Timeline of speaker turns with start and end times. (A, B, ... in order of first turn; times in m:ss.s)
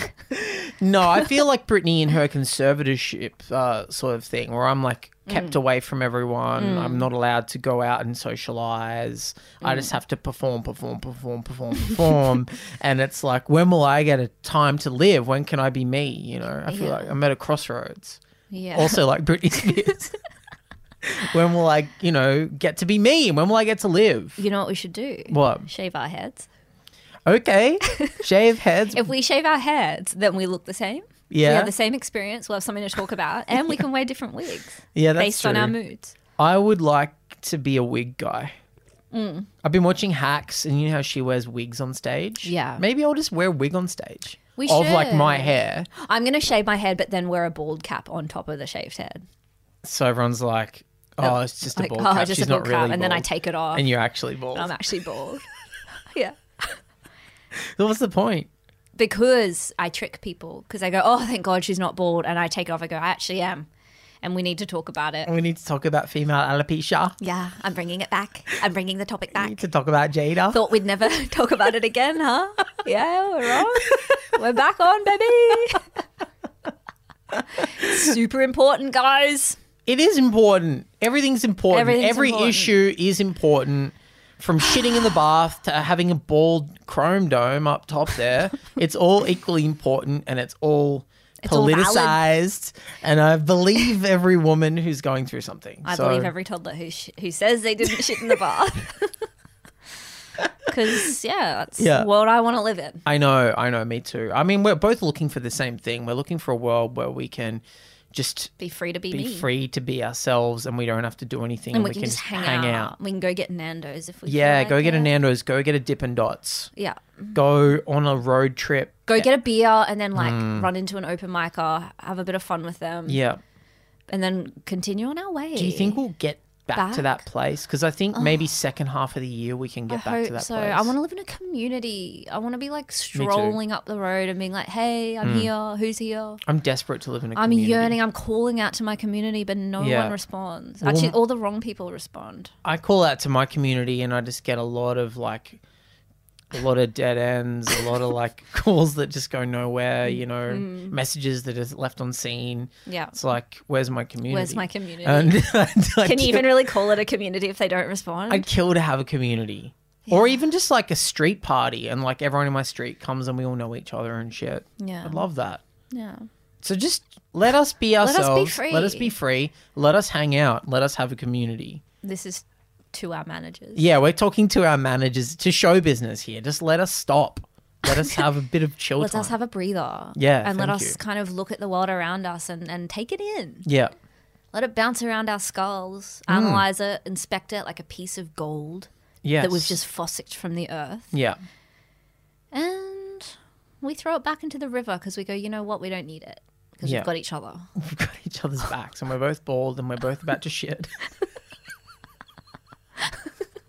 0:00.3-0:18.2 A
0:05.3-0:05.6 B
0:06.6-0:07.0 B
0:09.6-0:09.9 B
0:16.7-0:17.1 B
0:18.5-0:19.0 B
0:18.7-0:20.1 A
0:21.0-0:24.4 A
0:24.4-0:26.5 B
0:25.3-0:25.7 A
0:27.2-0:29.1 A
0:28.9-0:36.1 B
0:31.3-0:31.7 A
0:34.9-0:35.8 A
0:36.4-0:38.5 A
0:39.1-0:39.5 B
0:39.6-0:45.9 A
0:42.4-0:42.8 B
0:44.6-0:49.2 B
0:49.8-0:54.7 A
0:51.2-0:53.9 B
0:54.5-0:55.4 B
0:56.1-0:56.8 B
0:57.5-0:58.5 A
0:59.0-1:03.7 B
1:04.2-1:05.3 B
1:05.2-1:07.2 A
1:07.2-1:09.6 B
1:09.4-1:10.6 A
1:10.5-1:15.8 B
1:17.5-1:19.6 B
1:19.8-1:36.3 A
1:21.7-1:22.8 B
1:31.4-1:32.2 B
1:35.8-1:39.1 B
1:40.7-1:43.0 B
1:41.8-1:42.1 A
1:43.0-1:48.5 A
1:48.6-1:49.5 B
1:49.1-1:53.0 A
1:51.7-1:55.1 B
1:54.2-1:56.7 A
1:56.8-1:57.4 B
1:57.3-1:59.3 A
1:59.1-2:03.2 B
2:00.2-2:00.7 A
2:03.1-2:03.4 A
2:04.1-2:06.0 B
2:05.6-2:10.9 A
2:06.7-2:07.2 B
2:08.1-2:08.4 B
2:09.9-2:16.4 B
2:13.1-2:13.6 A
2:15.2-2:15.5 A
2:16.4-2:18.0 A
2:17.4-2:22.5 B
2:19.8-2:20.2 A
2:20.8-2:21.2 A
2:22.6-2:25.6 A
2:26.5-2:36.7 A
2:30.0-2:31.0 B
2:32.8-2:33.1 B
2:34.3-2:35.4 B
2:36.0-2:38.5 B
2:38.3-2:45.6 A
2:40.1-2:40.4 B
2:44.8-2:45.2 B
2:45.9-2:46.3 B
2:46.6-2:51.8 A
2:48.0-2:49.1 B
2:52.0-2:53.9 B
2:53.8-2:59.4 A
2:59.0-3:03.6 B
3:00.1-3:01.0 A
3:03.6-3:03.9 A
3:04.5-3:11.1 B
3:06.3-3:06.6 A
3:09.2-3:09.8 A
3:11.1-3:11.4 A
3:12.5-3:17.7 B
3:17.7-3:20.9 A